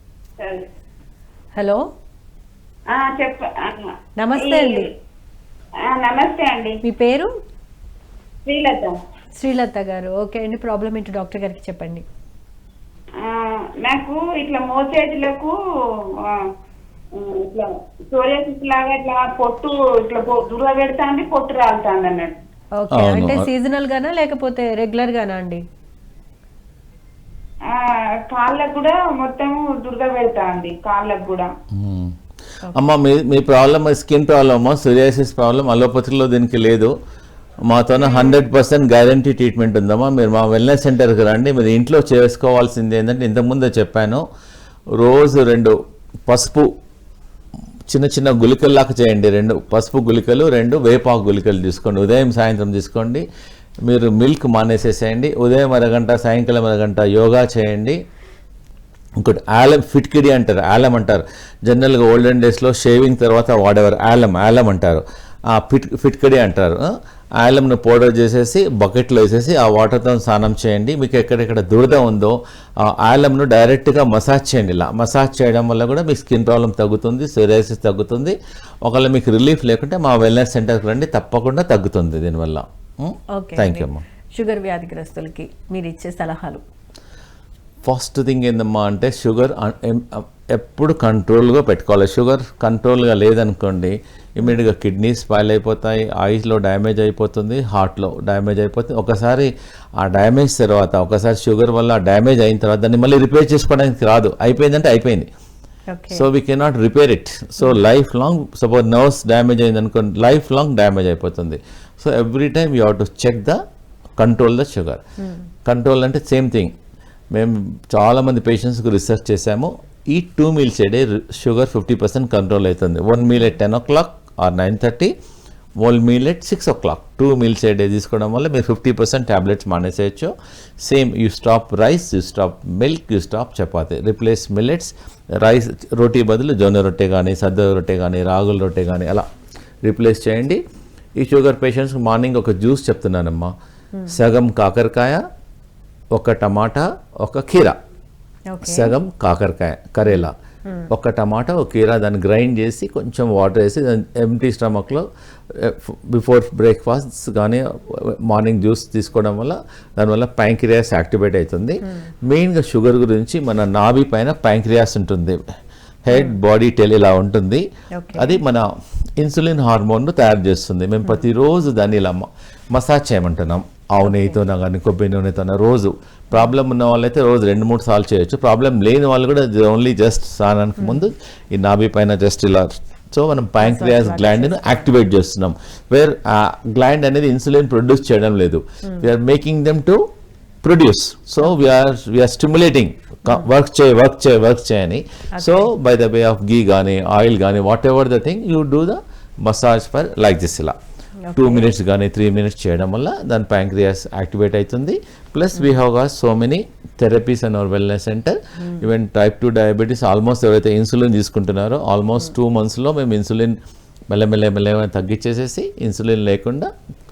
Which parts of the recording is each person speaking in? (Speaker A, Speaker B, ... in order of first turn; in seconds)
Speaker A: 0.4-0.7, 2.9-4.9, 5.8-6.8, 8.5-9.0, 13.2-15.6, 17.1-22.4, 27.7-31.5, 38.0-38.4
Speaker B: 1.6-1.8, 4.2-4.9, 6.8-7.3, 9.4-12.1, 22.8-25.6, 83.3-86.6, 105.9-106.3, 148.5-148.9, 150.1-150.9, 166.1-166.4, 167.9-168.4, 174.0-174.4, 180.8-181.1, 183.6-184.9, 195.4-195.7, 201.2-201.7, 208.6-208.9
Speaker C: 22.9-23.5, 31.7-32.2, 32.7-36.9, 37.7-44.2, 45.0-45.7, 46.3-46.7, 47.9-53.3, 53.9-58.0, 59.2-84.0, 87.8-105.3, 106.1-113.6, 114.2-115.0, 115.7-116.7, 117.3-125.1, 125.8-130.3, 130.8-139.3, 139.8-140.6, 141.2-143.5, 144.1-145.2, 146.2-147.8, 148.6-150.3, 150.9-165.4, 166.1-168.7, 169.2-190.0, 190.6-200.8, 201.3-213.6, 214.1-216.7